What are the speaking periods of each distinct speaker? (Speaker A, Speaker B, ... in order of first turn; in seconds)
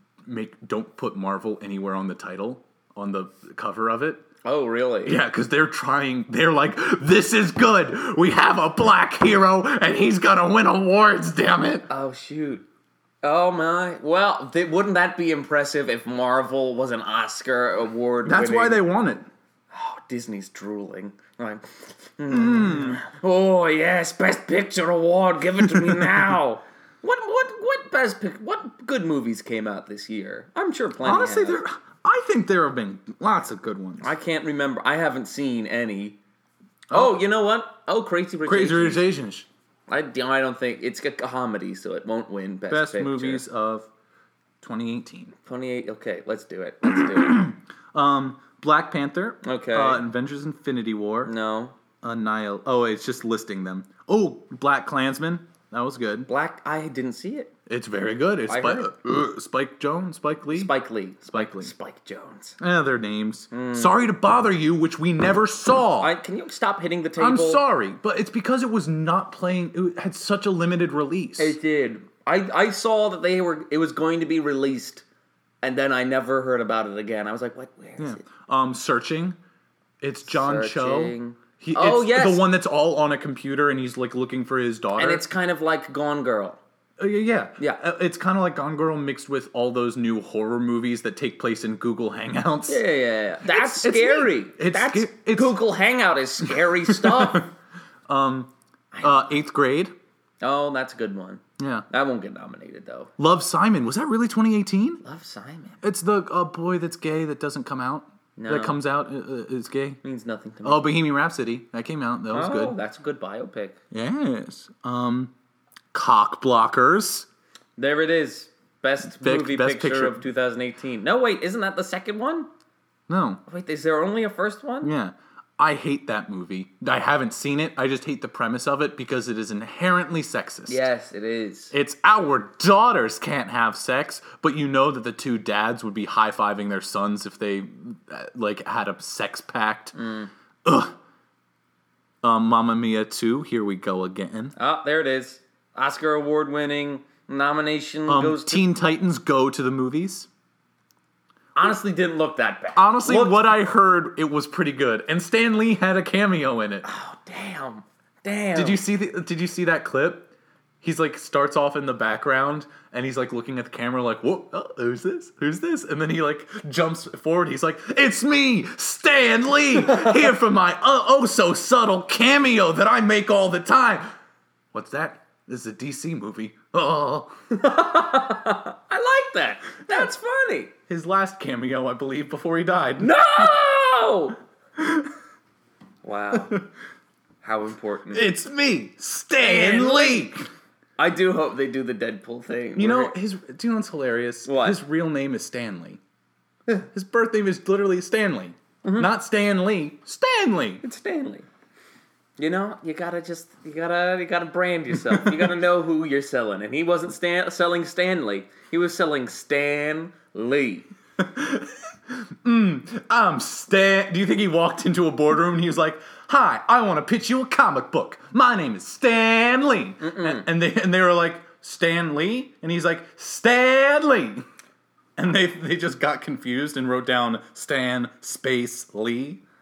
Speaker A: 0.2-4.2, 5.0-11.9, 18.2-19.2, 22.3-23.0, 25.6-26.3, 31.0-34.1, 36.9-37.2, 38.4-39.5, 42.7-43.9, 44.6-45.3, 46.9-51.3, 52.0-56.3, 57.7-60.7, 61.3-61.7, 62.6-66.1, 67.2-71.5, 78.0-79.4, 80.0-85.2, 87.0-92.8, 93.4-95.5, 96.9-97.5, 98.1-98.5, 99.0-99.9, 101.6-101.8, 103.2-105.0, 105.8-110.0, 110.6-112.8, 113.9-115.3, 115.9-117.3, 119.1-120.2, 123.1-123.4, 124.8-130.8, 131.7-139.9, 140.6-140.9, 142.2-144.5, 148.1-150.3, 152.8-156.8, 158.5-160.3, 160.8-174.1, 174.7-177.6, 180.9-183.5, 184.8-185.1, 186.3-186.6, 188.1-190.4, 192.8-196.0, 196.7-200.8, 211.2-224.4, 225.2-229.4
Speaker B: 4.4-5.2, 11.9-12.7, 13.2-18.8, 19.7-31.6, 34.0-36.2, 36.9-39.1, 39.9-43.4, 45.5-47.5, 49.4-50.0, 51.2-51.8, 56.3-57.5, 58.5-58.9, 60.5-62.6, 63.5-64.0, 66.0-67.6, 71.4-75.0, 75.6-78.2, 80.2-82.5, 85.0-86.6, 92.7-97.5, 98.9-99.4, 100.4-103.1, 105.0-105.8, 108.3-108.8, 110.0-110.9, 112.3-113.8, 117.8-122.5, 123.5-124.9, 130.7-131.7, 139.9-140.3, 144.6-148.6, 151.5-153.5, 156.8-158.8, 177.5-180.7, 183.0-184.4, 186.0-186.6, 187.4-188.3, 189.4-190.3, 191.0-193.1, 194.4-194.8, 198.8-199.1, 200.8-201.4, 202.4-210.9, 220.0-220.5